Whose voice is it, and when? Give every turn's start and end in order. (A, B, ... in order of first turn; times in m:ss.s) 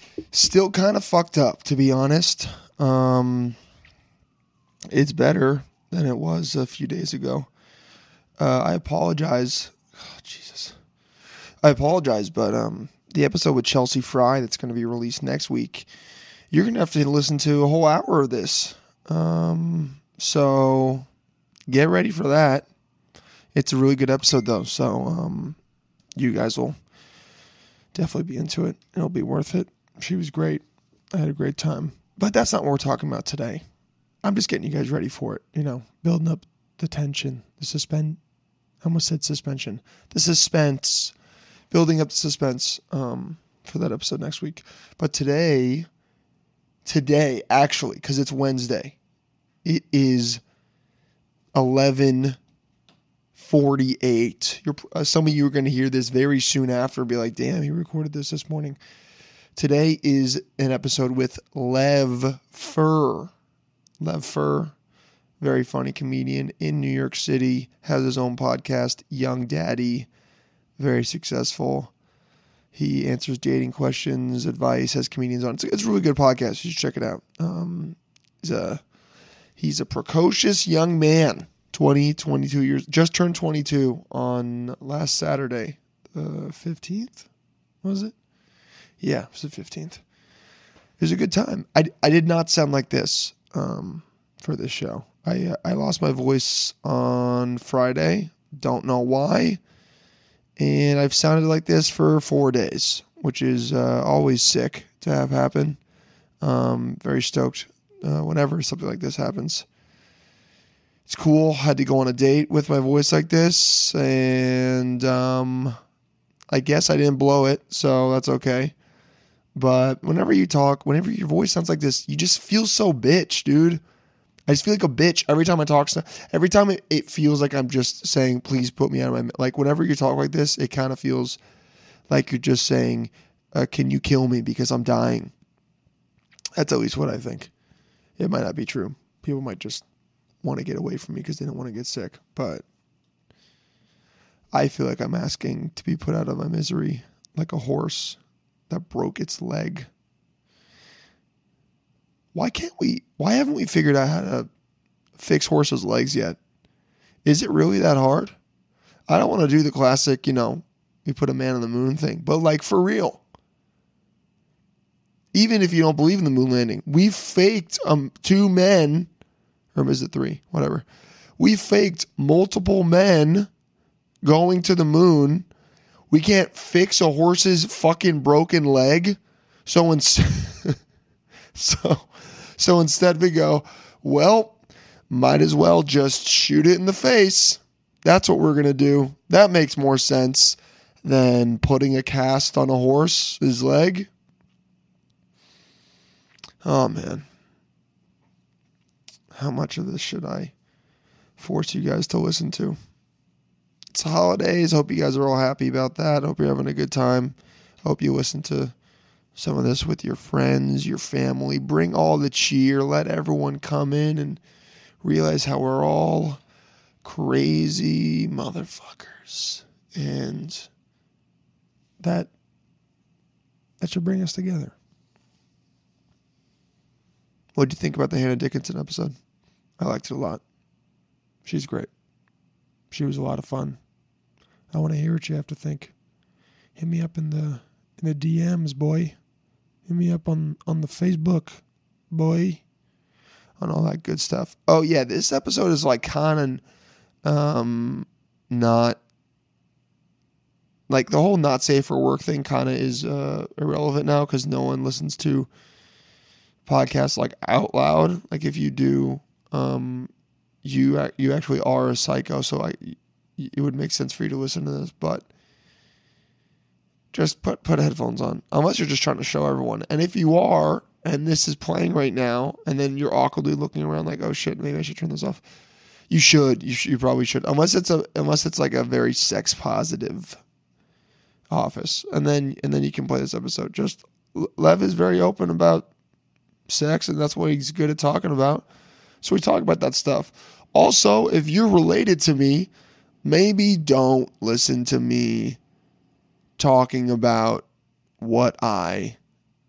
0:00.3-0:03.6 A
0:04.9-0:07.5 A
0:08.4-0:10.7 A
0:11.6-0:15.9 A
0:16.5-0:21.0 A
0:21.7-0:22.6 A
0:23.5-0:25.6 A
0:26.2-0:26.8 A
0:27.9-0:33.6 A
0:34.2-0:38.2 A
0:38.8-0:41.1 A
0:41.7-0:45.9 A
0:46.8-0:48.9 A
0:49.6-0:50.4 A
0:51.5-0:52.4 A
0:53.4-0:58.8 A
0:59.6-1:03.3 A
1:04.0-1:04.7 A
1:05.4-1:10.1 A
1:10.8-1:11.9 A
1:12.7-1:18.8 A
1:19.6-1:27.2 A
1:27.8-1:28.1 A
1:29.0-1:30.0 A
1:31.0-1:39.6 A
1:40.6-1:45.8 A
1:46.4-1:49.6 A
1:51.1-1:55.8 A
1:56.5-1:58.7 A
1:59.5-2:03.8 A
2:04.5-2:11.4 A
2:12.1-2:15.3 A
2:16.6-2:17.5 A
2:18.2-2:19.8 A
2:20.4-2:22.6 A
2:24.5-2:28.2 A
2:28.7-2:29.9 A
2:32.3-2:34.5 A
2:35.2-2:36.4 A
2:37.2-2:38.3 A
2:39.1-2:43.2 A
2:45.3-2:49.1 A
2:49.7-2:50.8 A
2:51.4-2:53.5 A
2:54.2-2:55.4 A
2:56.1-3:00.8 A
3:01.5-3:04.5 A
3:05.1-3:14.1 A
3:16.6-3:17.2 A
3:19.3-3:20.5 A
3:21.4-3:22.8 A
3:23.9-3:28.7 A
3:29.4-3:34.4 A
3:35.0-3:36.4 A
3:37.0-3:40.7 A
3:42.0-3:42.3 A
3:43.8-3:44.7 A
3:47.6-3:49.1 A
3:49.8-3:50.4 A
3:51.4-3:51.9 A
3:52.9-3:53.8 A
3:54.7-3:55.9 A
3:56.8-3:59.2 A
3:59.9-4:02.6 A
4:03.6-4:06.6 A
4:07.2-4:09.0 A
4:10.9-4:15.5 A
4:16.6-4:20.1 A
4:20.6-4:25.2 A
4:27.1-4:35.4 A
4:36.1-4:40.4 A
4:41.5-4:45.9 A
4:46.7-4:48.6 A
4:49.2-4:52.7 A
4:53.2-4:55.6 A
4:56.6-4:57.6 A
4:58.2-4:59.2 A